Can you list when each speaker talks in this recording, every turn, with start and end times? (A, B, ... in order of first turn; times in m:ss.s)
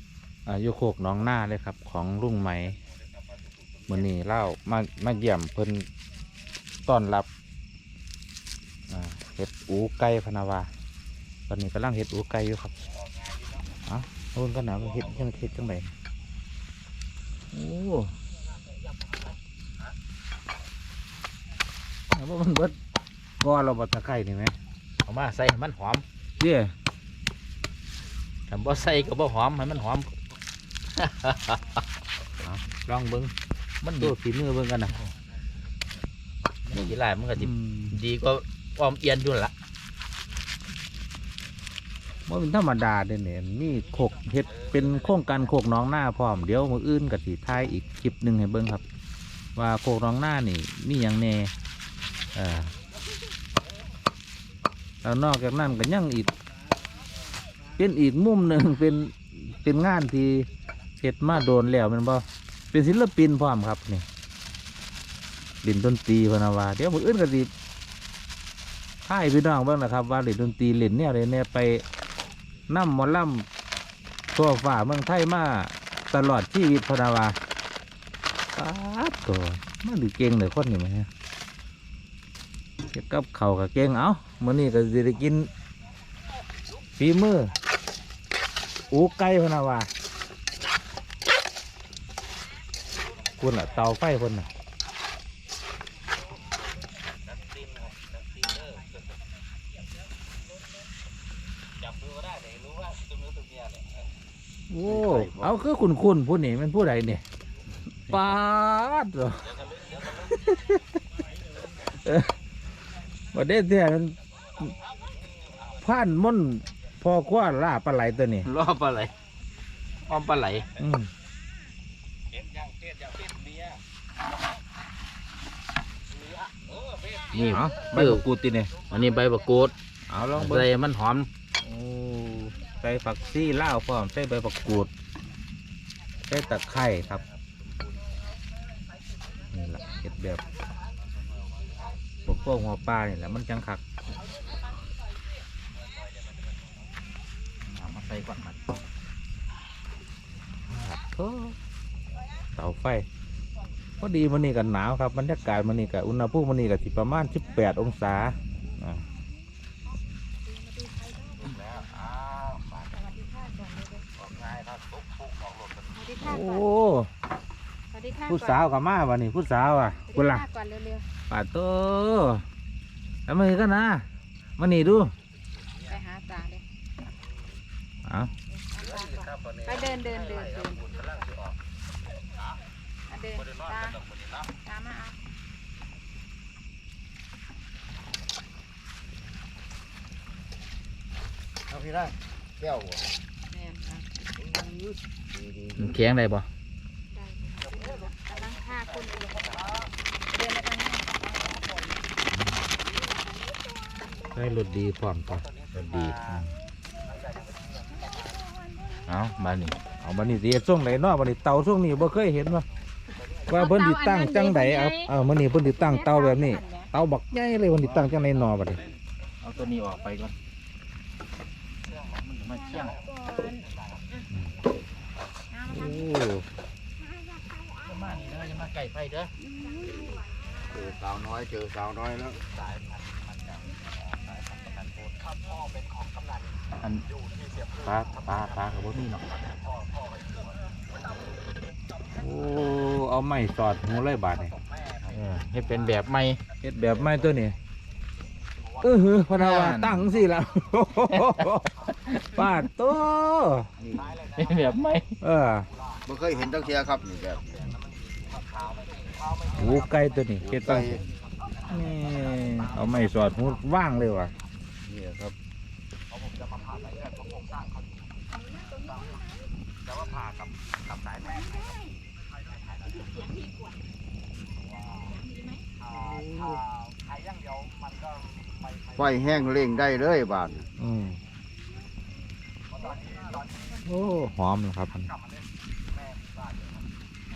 0:00.5-0:02.8 A
0:03.9-0:05.9 A
0:06.9-0:07.3 A
0:08.9-0:10.7 A
0:11.5-0:12.7 A
0:13.9-0:15.9 A
0:17.5-0:18.1 B
0:22.1-0:22.8 A
0:23.4-0:24.6 A
0:25.0-0:26.0 B
0:26.4-0:26.7 A
0:28.5-0:30.1 B
0:31.0-0:31.6 B
0:32.7-0:33.3 A
0:33.8-0:34.2 B
0:34.0-0:35.1 A
0:36.7-0:39.5 B
0:37.4-0:38.0 A
0:42.3-0:48.8 A
0:49.6-0:51.5 A
0:52.4-0:52.7 A
0:55.0-0:56.3 A
0:57.8-1:00.5 A
1:01.0-1:04.0 A
1:05.6-1:07.5 A
1:09.1-1:11.8 A
1:12.7-1:13.5 A
1:14.3-1:17.4 A
1:18.6-1:21.1 A
1:22.9-1:25.5 A
1:27.0-1:27.5 A
1:28.9-1:29.9 A
1:33.4-1:34.5 A
1:42.3-1:42.8 B
1:44.7-1:47.2 A
1:44.9-1:45.5 B
1:48.1-1:50.8 A
1:51.7-1:52.3 A
1:53.3-1:54.7 A
1:55.8-1:58.5 A
1:58.4-1:59.1 B
2:00.1-2:00.7 B
2:00.8-2:01.1 A
2:07.1-2:08.2 B
2:07.5-2:08.7 A
2:08.8-2:09.7 B
2:10.1-2:10.7 A
2:10.4-2:11.3 B
2:11.6-2:14.9 A
2:16.3-2:17.2 A
2:19.5-2:20.4 A
2:22.2-2:23.8 A
2:27.6-2:28.6 B
2:30.7-2:31.6 A
2:32.6-2:33.1 A
2:34.0-2:39.0 A
2:40.6-2:41.4 C
2:41.5-2:41.8 B
2:42.9-2:44.1 C
2:44.2-2:44.8 B
2:45.9-2:46.6 C
2:46.2-2:47.1 A
2:47.9-2:48.6 C
2:48.3-2:50.5 A
2:50.1-2:51.0 C
2:51.3-2:52.4 A
2:53.3-2:54.0 A
2:54.6-2:55.1 A
2:55.9-2:56.6 C
2:58.0-2:58.3 A
2:58.6-3:00.9 C
2:59.0-3:01.4 B
3:03.1-3:04.0 C
3:04.6-3:05.2 C
3:11.7-3:13.0 D
3:13.5-3:14.0 C
3:14.4-3:15.7 D
3:15.8-3:16.5 B
3:17.2-3:19.4 C
3:20.3-3:21.2 C
3:24.3-3:25.5 A
3:25.7-3:26.2 B
3:29.0-3:29.8 B
3:30.0-3:32.7 A
3:33.5-3:38.8 A
3:33.5-3:35.0 C
3:36.0-3:36.9 C
3:37.8-3:38.1 B
3:39.4-3:40.3 B
3:42.1-3:43.0 B
3:43.0-3:43.6 C
3:45.6-3:46.5 A
3:47.8-3:49.3 B
3:49.5-3:50.2 C
3:50.7-3:52.4 D
3:56.8-3:57.1 B
3:57.7-3:59.4 B
4:02.1-4:04.6 A
4:05.0-4:07.0 B
4:06.6-4:07.6 A
4:08.8-4:13.7 A
4:09.4-4:10.1 B
4:11.2-4:12.2 B
4:13.8-4:14.2 D
4:14.2-4:15.1 B
4:15.2-4:15.7 A
4:16.1-4:17.6 D
4:19.5-4:21.0 A
4:20.5-4:21.0 D
4:21.7-4:24.3 A
4:24.8-4:25.3 D
4:31.4-4:31.8 C
4:33.2-4:33.4 C
4:35.1-4:35.5 C
4:35.9-4:36.6 A
4:39.0-4:40.6 D
4:40.8-4:41.2 A
4:43.8-4:45.1 A